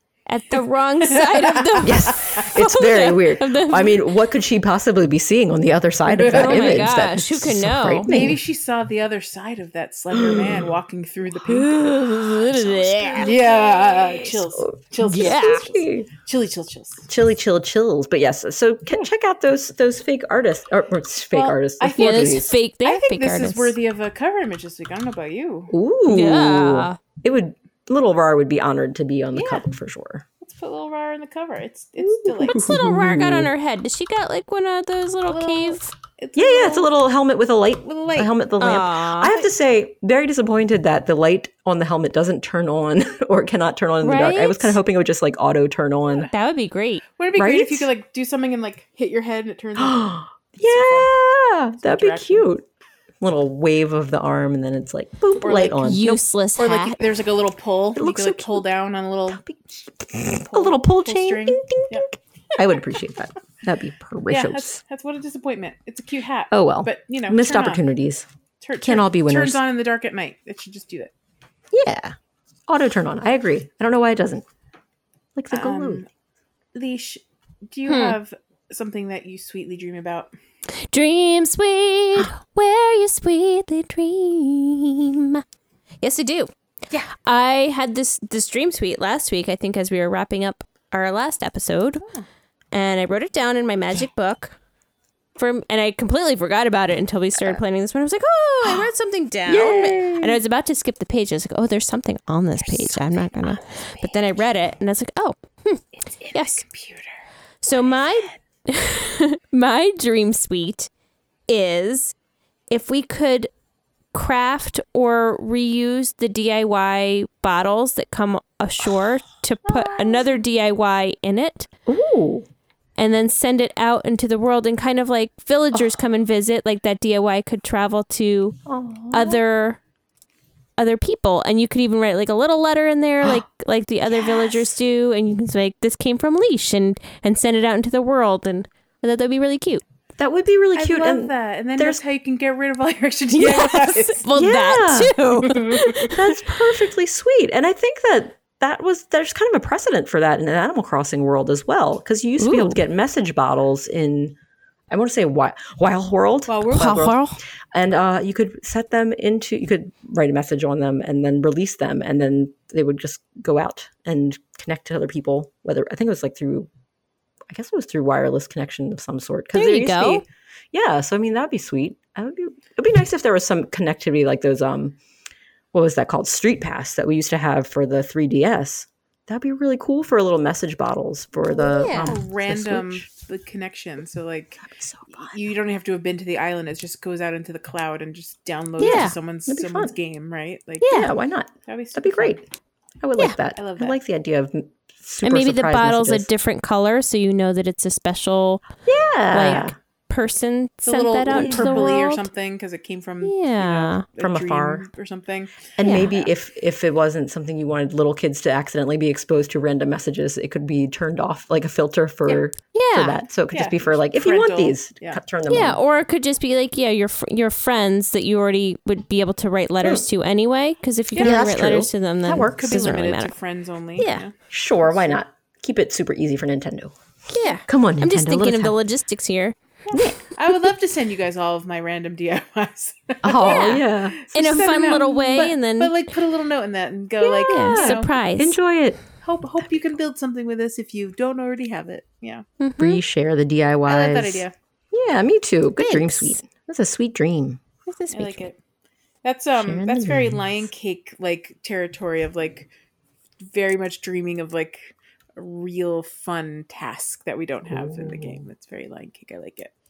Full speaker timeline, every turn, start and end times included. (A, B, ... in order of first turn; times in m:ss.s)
0:00.3-0:04.0 A
0:01.1-0:02.4 B
0:01.8-0:08.4 C
0:06.1-0:06.9 B
0:06.3-0:08.2 A
0:08.1-0:11.9 B
0:10.1-0:10.7 C
0:11.5-0:16.1 C
0:11.5-0:13.8 A
0:13.2-0:17.1 B
0:15.0-0:15.6 A
0:17.1-0:22.6 C
0:21.3-0:25.7 B
0:22.0-0:23.8 A
0:25.7-0:30.2 C
0:26.1-0:27.0 A
0:29.3-0:29.7 B
0:30.4-0:32.7 B
0:32.0-0:33.5 C
0:32.5-0:35.9 A
0:35.3-0:36.9 B
0:36.4-0:46.3 C
0:37.8-0:38.3 B
0:38.6-0:39.4 A
0:44.0-0:44.8 A
0:46.3-0:47.0 A
0:47.2-0:51.1 B
0:47.4-0:47.9 C
0:49.8-0:52.7 C
0:51.8-0:52.5 B
0:53.2-0:56.2 C
0:55.4-0:59.4 B
0:55.8-0:57.0 A
0:58.0-0:58.6 C
0:59.3-1:04.8 C
1:00.2-1:02.1 B
1:04.3-1:07.8 B
1:06.5-1:08.3 C
1:08.6-1:11.1 B
1:08.8-1:09.6 C
1:11.7-1:12.2 C
1:12.7-1:14.4 C
1:15.4-1:16.0 C
1:15.5-1:16.1 B
1:16.7-1:20.3 B
1:17.9-1:18.2 A
1:20.8-1:25.4 A
1:26.0-1:26.5 A
1:27.2-1:32.0 A
1:32.7-1:34.6 A
1:35.4-1:46.6 A
1:39.5-1:40.4 C
1:42.6-1:44.1 C
1:46.3-1:47.1 B
1:47.6-1:50.9 A
1:47.7-1:48.2 B
1:51.5-1:52.1 A
1:52.7-1:53.5 A
1:54.1-2:01.7 A
2:01.9-2:02.5 C
2:03.0-2:08.6 A
2:08.7-2:09.4 C
2:09.1-2:09.8 A
2:10.8-2:19.8 A
2:20.2-2:22.0 C
2:20.8-2:24.3 B
2:23.4-2:26.2 A
2:24.3-2:25.2 C
2:25.5-2:26.0 B
2:26.0-2:34.4 C
2:32.4-2:32.8 A
2:34.9-2:37.2 C
2:36.5-2:37.1 B
2:36.7-2:37.4 A
2:37.7-2:46.7 C
2:47.5-2:55.0 C
2:49.5-2:50.2 A
2:55.7-3:03.1 C
3:01.6-3:02.2 A
3:01.7-3:11.0 B
3:04.7-3:05.4 C
3:08.8-3:09.9 C
3:08.8-3:09.2 A
3:10.8-3:11.1 A
3:10.8-3:12.4 C
3:11.7-3:12.4 B
3:13.0-3:16.3 C
3:13.6-3:14.0 B
3:15.2-3:18.7 A
3:18.8-3:19.8 C
3:19.3-3:22.3 A
3:20.9-3:26.3 B
3:21.3-3:22.0 C
3:23.2-3:24.0 A
3:24.2-3:24.9 C
3:25.8-3:35.8 C
3:25.8-3:26.1 A
3:32.7-3:33.2 A
3:33.5-3:35.2 B
3:35.5-3:43.3 A
3:41.1-3:41.4 B
3:41.2-3:42.8 C
3:42.3-3:45.2 B
3:44.0-3:44.2 A
3:44.5-3:46.9 C
3:47.3-3:49.6 A
3:47.6-3:48.8 C
3:49.9-3:58.1 B
3:49.9-3:50.3 C
3:53.2-3:55.0 C
3:53.4-3:56.0 A
3:57.2-3:59.0 C
3:57.5-3:58.6 A
3:59.2-4:02.4 B
4:02.6-4:03.0 A
4:02.8-4:07.6 C
4:03.9-4:04.5 B
4:05.8-4:06.4 A
4:07.9-4:08.5 A
4:08.1-4:08.6 B
4:09.2-4:12.7 B
4:09.6-4:10.6 C
4:13.4-4:19.7 B
4:17.7-4:18.4 C